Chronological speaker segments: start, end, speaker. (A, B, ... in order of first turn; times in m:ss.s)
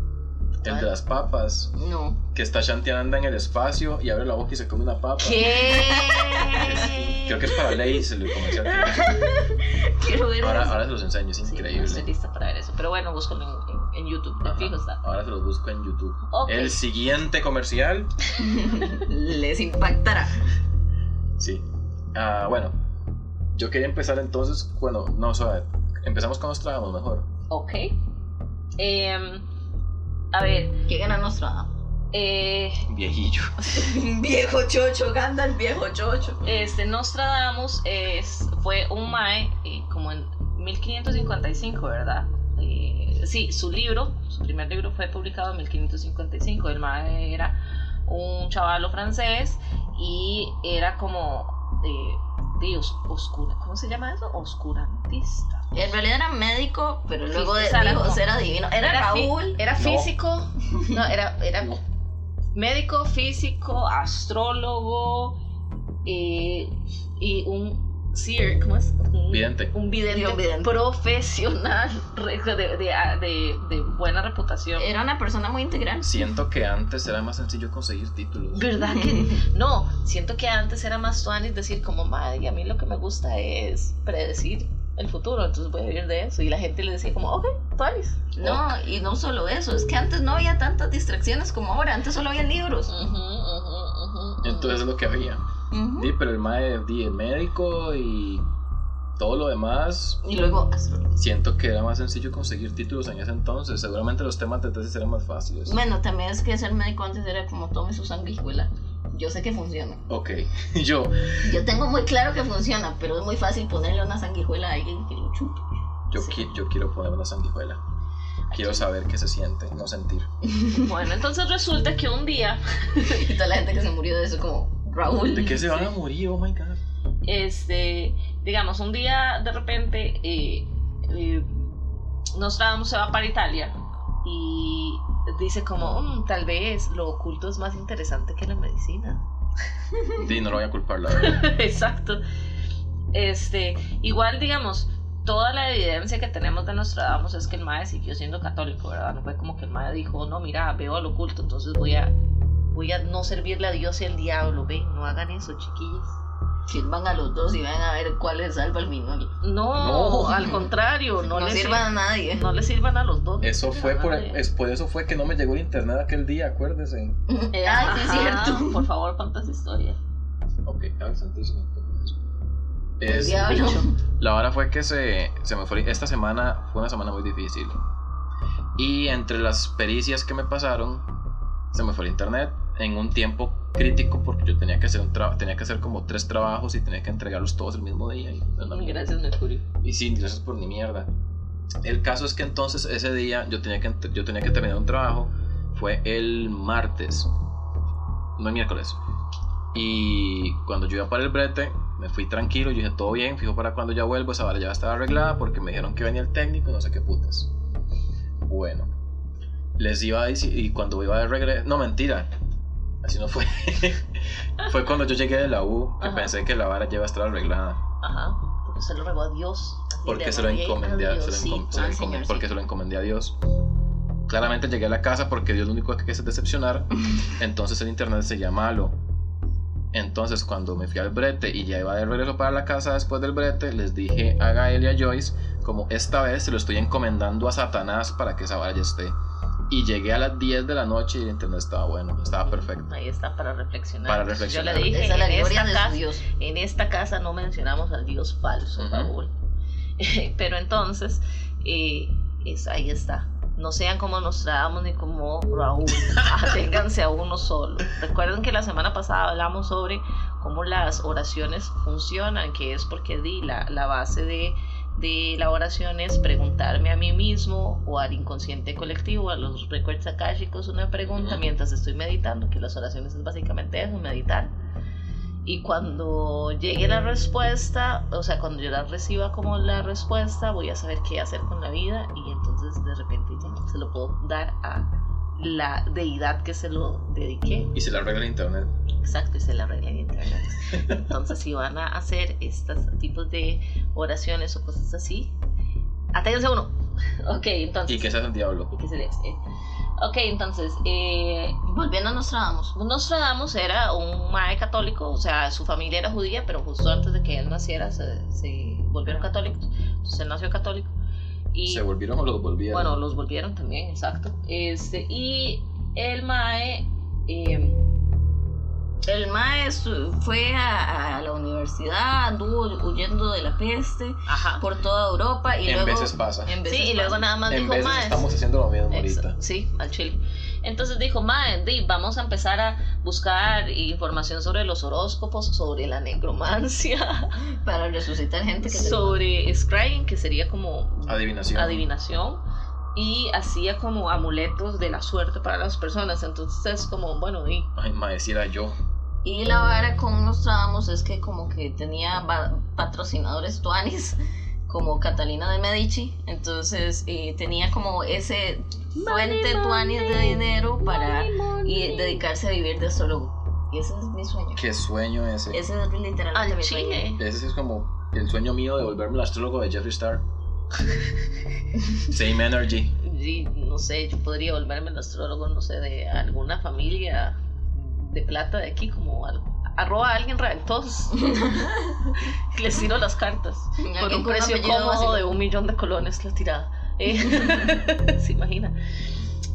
0:00.6-0:01.7 A
0:01.8-0:02.2 B
0:02.3-0:09.3 A
0:05.2-0:07.4 C
0:05.5-0:06.9 B
0:08.6-0:10.8 B
0:10.4-0:12.1 A
0:11.5-0:15.0 C
0:14.4-0:18.1 A
0:16.3-0:16.8 C
0:18.4-0:20.4 B
0:21.4-0:22.8 A
0:23.5-0:27.3 A
0:27.5-0:27.9 C
0:28.8-0:29.5 C
0:30.3-0:30.8 C
0:30.9-0:31.7 B
0:32.1-0:32.9 C
0:32.9-0:33.7 A
0:33.7-0:36.7 B
0:36.4-0:55.9 C
0:55.7-0:59.6 B
0:57.3-0:58.2 C
0:58.8-1:01.8 C
0:59.8-1:00.1 A
1:02.6-1:05.4 C
1:06.0-1:14.9 C
1:09.3-1:09.7 A
1:10.1-1:10.8 B
1:14.8-1:16.2 B
1:16.0-1:18.7 A
1:18.5-1:28.3 C
1:19.0-1:19.4 B
1:28.3-1:32.9 B
1:28.4-1:28.7 A
1:32.9-1:34.8 C
1:34.4-1:35.4 A
1:35.7-1:36.1 B
1:36.0-1:38.4 A
1:39.2-1:40.2 A
1:40.2-1:41.1 B
1:41.2-1:45.8 A
1:45.7-1:50.0 B
1:50.1-1:51.4 A
1:51.4-1:55.7 B
1:56.1-1:57.8 A
1:58.5-2:00.3 A
1:58.5-1:58.8 C
2:00.4-2:01.0 B
2:00.7-2:03.3 C
2:03.0-2:05.8 B
2:05.3-2:06.8 A
2:07.2-2:11.7 C
2:12.3-2:19.2 C
2:20.1-2:21.4 A
2:21.1-2:22.2 C
2:23.1-2:32.1 C
2:32.7-2:36.2 C
2:36.7-2:39.3 B
2:39.4-2:44.4 C
2:39.8-2:40.6 A
2:40.3-2:40.6 B
2:41.2-2:42.5 B
2:43.4-2:47.2 A
2:47.3-2:48.9 B
2:47.5-2:50.0 C
2:50.7-2:52.1 A
2:53.0-2:57.8 A
2:53.1-2:53.9 B
2:53.2-2:53.8 C
2:58.8-3:01.1 A
3:01.7-3:09.1 A
3:08.7-3:09.6 C
3:09.8-3:11.1 A
3:11.8-3:17.3 A
3:18.4-3:19.0 A
3:19.7-3:27.5 A
3:28.4-3:28.9 A
3:29.8-3:32.3 A
3:33.0-3:37.8 A
3:36.0-3:36.3 C
3:38.0-3:42.0 C
3:40.0-3:43.4 A
3:41.7-3:42.5 B
3:44.3-3:49.0 A
3:49.9-3:59.2 A
3:59.7-4:02.9 A
4:02.4-4:09.3 C
4:04.1-4:04.9 A
4:04.8-4:06.2 B
4:08.8-4:09.1 A
4:10.0-4:34.5 C
4:31.1-4:31.4 A
4:35.4-4:47.7 C
4:47.7-4:48.7 A
4:49.0-4:55.4 C
4:50.7-4:51.0 A
4:56.1-4:59.4 C
4:57.9-4:58.7 A
5:00.0-5:01.6 C
5:01.6-5:02.7 B
5:02.8-5:10.9 C
5:11.5-5:11.9 C
5:11.7-5:13.0 A
5:12.7-5:17.8 C
5:19.1-5:27.3 B
5:24.3-5:24.7 C
5:25.6-5:26.6 A
5:26.6-5:28.3 C
5:27.5-5:29.4 A
5:28.9-5:37.3 C
5:37.6-5:39.2 B
5:38.6-5:42.4 C
5:41.0-5:41.8 A
5:43.0-5:47.7 C
5:47.8-5:48.8 A
5:49.2-6:04.6 B
5:59.0-6:02.2 C
6:04.6-6:05.6 A
6:05.5-6:07.1 B
6:06.3-6:07.2 C
6:07.2-6:10.2 A
6:11.9-6:13.0 A
6:13.0-6:21.4 C
6:21.1-6:22.1 B
6:22.2-6:28.8 C
6:23.8-6:25.3 B